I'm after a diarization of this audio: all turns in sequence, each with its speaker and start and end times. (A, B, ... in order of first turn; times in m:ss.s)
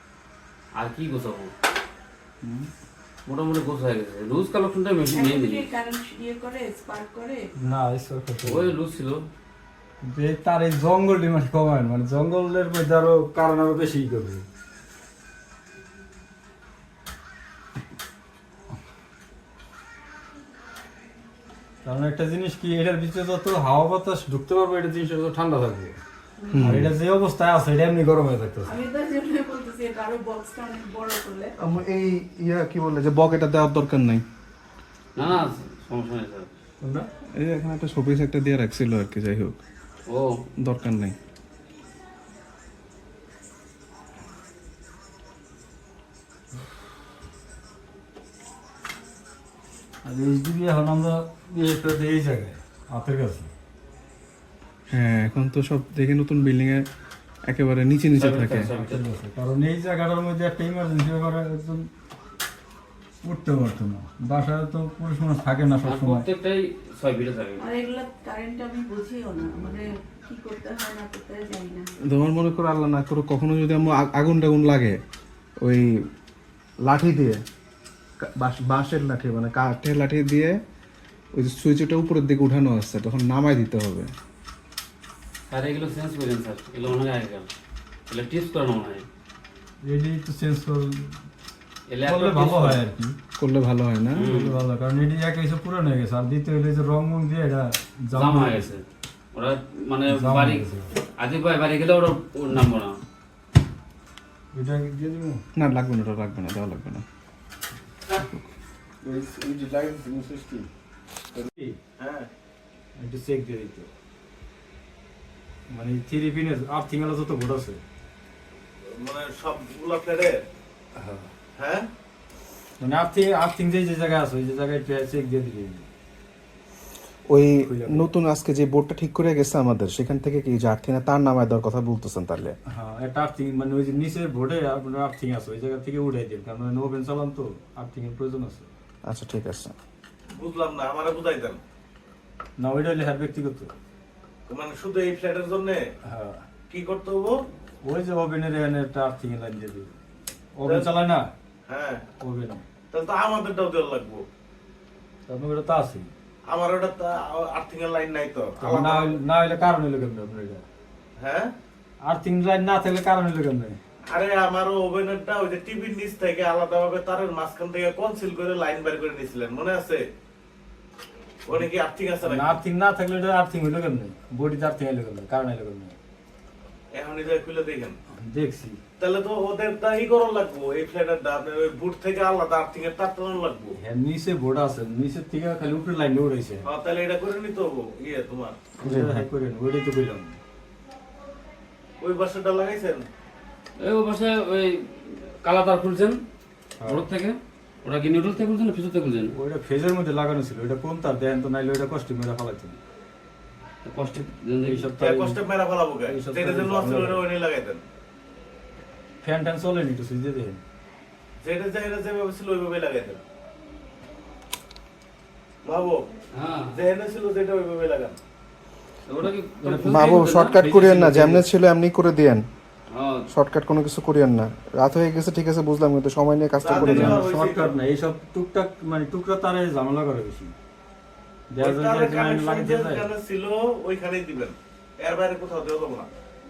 0:00.8-0:01.5 A
0:02.4-0:02.7 B
0:03.3-0:05.7 A
0:05.1-0:07.5 C
0:07.6-0:08.7 B
0:08.5-0:09.3 A
0:10.0-0:14.5 B
0:21.8-0:26.0 B
0:26.4-0:26.7 C
0:26.5-0:26.9 D
0:26.6-0:28.7 B
0:28.7-0:31.6 C
0:31.6-0:34.2 D
0:35.2-0:36.5 A
0:36.8-0:37.1 B
0:37.4-0:39.6 D
0:40.1-0:40.4 A
0:40.6-0:41.2 D
0:50.0-0:53.5 B
0:54.9-0:56.9 D
0:57.5-0:58.7 D
0:58.2-0:59.0 A
0:58.8-1:01.9 B
1:03.2-1:06.2 B
1:05.8-1:07.6 A
1:07.6-1:11.9 C
1:12.0-1:15.0 D
1:15.6-1:16.0 D
1:16.8-1:17.4 D
1:18.2-1:20.6 D
1:21.3-1:24.1 D
1:25.5-1:27.5 A
1:28.1-1:29.1 A
1:29.8-1:31.2 B
1:31.9-1:32.8 A
1:32.0-1:33.2 B
1:33.4-1:34.3 D
1:34.2-1:38.7 B
1:34.2-1:34.6 A
1:38.2-1:42.9 A
1:40.1-1:40.9 B
1:44.5-1:45.4 B
1:45.6-1:47.0 D
1:48.2-1:48.5 D
1:49.0-1:50.7 B
1:51.3-1:51.8 B
1:52.0-1:52.3 E
1:53.0-1:53.9 B
1:55.7-1:57.8 B
1:58.9-2:00.4 E
2:01.0-2:01.3 B
2:01.6-2:01.9 E
2:02.8-2:05.9 B
2:07.3-2:12.6 D
2:07.6-2:08.1 B
2:12.7-2:18.7 B
2:19.1-2:19.7 D
2:20.4-2:21.6 E
2:22.6-2:23.7 B
2:24.5-2:25.8 E
2:26.1-2:26.4 B
2:26.7-2:27.4 E
2:27.8-2:29.9 B
2:30.6-2:31.3 B
2:30.6-2:30.9 E
2:31.7-2:32.0 E
2:32.2-2:32.6 B
2:32.9-2:34.3 E
2:35.3-2:36.1 B
2:36.5-2:39.2 E
2:38.6-2:40.6 B
2:41.2-2:41.5 E
2:42.0-2:43.8 B
2:44.1-2:50.1 E
2:51.5-2:52.6 E
2:52.2-2:56.0 B
2:56.9-2:58.0 E
2:58.1-2:58.8 B
2:59.0-3:03.8 E
3:03.8-3:06.7 B
3:06.6-3:08.6 E
3:08.8-3:10.4 B
3:08.8-3:09.3 D
3:12.0-3:13.0 E
3:13.8-3:16.2 A
3:16.8-3:17.1 B
3:16.8-3:19.3 A
3:19.3-3:22.8 B
3:23.8-3:24.9 A
3:24.6-3:25.4 B
3:25.0-3:27.8 E
3:26.0-3:27.2 B
3:29.2-3:30.6 B
3:31.4-3:33.2 E
3:35.6-3:36.1 E
3:36.4-3:36.7 A
3:36.7-3:38.2 E
3:39.1-3:40.6 A
3:39.6-3:41.5 B
3:39.8-3:42.5 D
3:42.9-3:43.3 A
3:43.3-3:47.3 D
3:46.6-3:47.8 E
3:46.8-3:50.5 B
3:51.5-3:53.1 B
3:51.6-3:56.1 E